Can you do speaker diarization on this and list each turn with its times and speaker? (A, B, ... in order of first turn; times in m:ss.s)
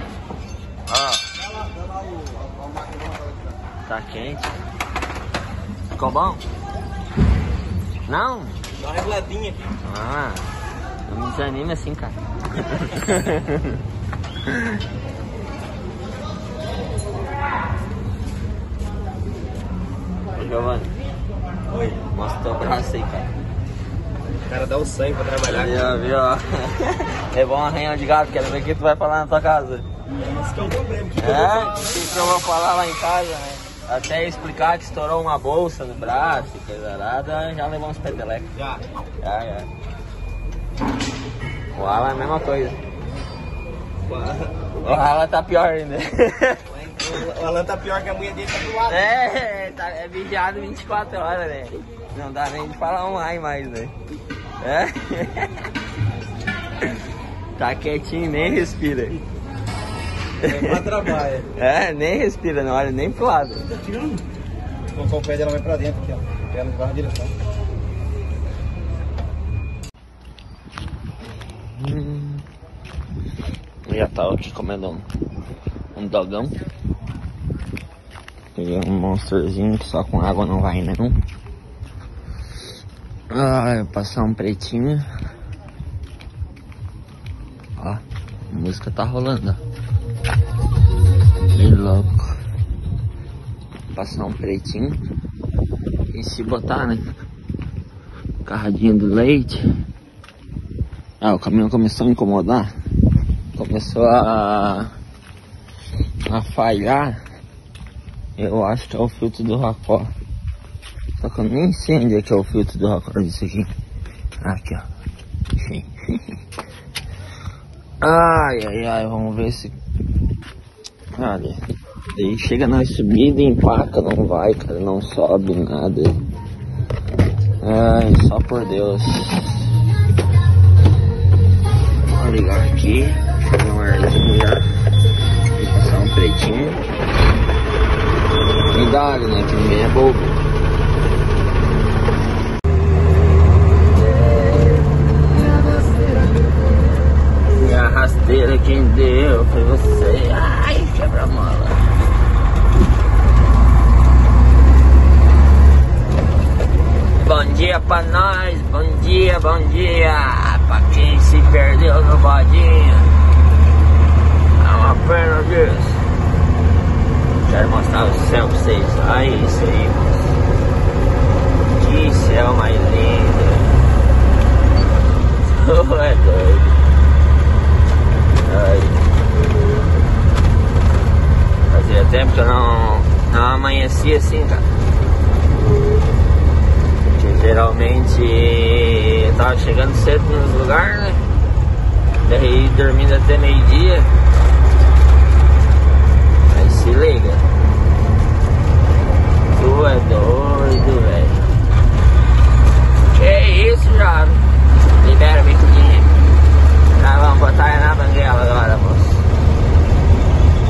0:00.9-0:01.3 A
0:03.9-0:04.5 A
0:06.0-0:06.4 A
0:08.1-0:08.6 A
0:08.9-0:09.6 B
0:09.8-0:10.6 A
0:11.1-0:13.8 A
0:14.4-0:14.7 A
0:20.4-0:21.0 A
0:22.0-0:23.3 A
0:24.5-0:25.8 B
0:25.4-0:29.9 A
0:30.2-0:31.2 B
0:31.2-0:38.5 A
0:39.2-0:39.7 A
0:41.7-0:42.8 A
0:44.1-0:44.6 B
0:44.8-0:46.7 A
0:46.7-0:49.0 B
0:48.8-0:53.9 A
0:54.6-0:55.6 A
0:57.6-0:59.2 A
1:00.4-1:03.7 A
1:00.4-1:01.5 B
1:04.9-1:07.3 B
1:11.5-1:12.4 A
1:13.9-1:15.1 A
1:16.0-1:16.6 A
1:18.6-1:21.2 A
1:23.3-1:25.1 A
1:27.8-1:29.6 A
1:31.5-1:32.4 A
1:34.0-1:35.0 A
1:36.1-1:37.1 A
1:38.4-1:39.6 A
1:41.2-1:42.7 A
1:43.6-1:44.9 A
1:46.2-1:47.2 A
1:48.4-1:50.1 A
1:51.2-1:53.7 A
1:54.4-1:54.9 A
1:55.6-1:56.3 A
1:58.0-1:59.8 A
2:01.2-2:06.2 A
2:07.6-2:09.6 A
2:12.1-2:14.7 A
2:15.5-2:16.8 A
2:18.7-2:20.4 A
2:27.6-2:31.8 A
2:37.2-2:43.2 A
2:44.6-2:46.0 A
2:47.4-2:50.4 A
2:51.7-2:53.7 A
2:55.4-2:56.8 A
2:58.4-2:59.0 A
3:01.7-3:04.6 A
3:07.0-3:11.2 A
3:12.2-3:14.1 A
3:16.5-3:17.4 A
3:19.5-3:21.5 A
3:23.1-3:24.5 A
3:25.0-3:26.2 A
3:27.0-3:29.3 A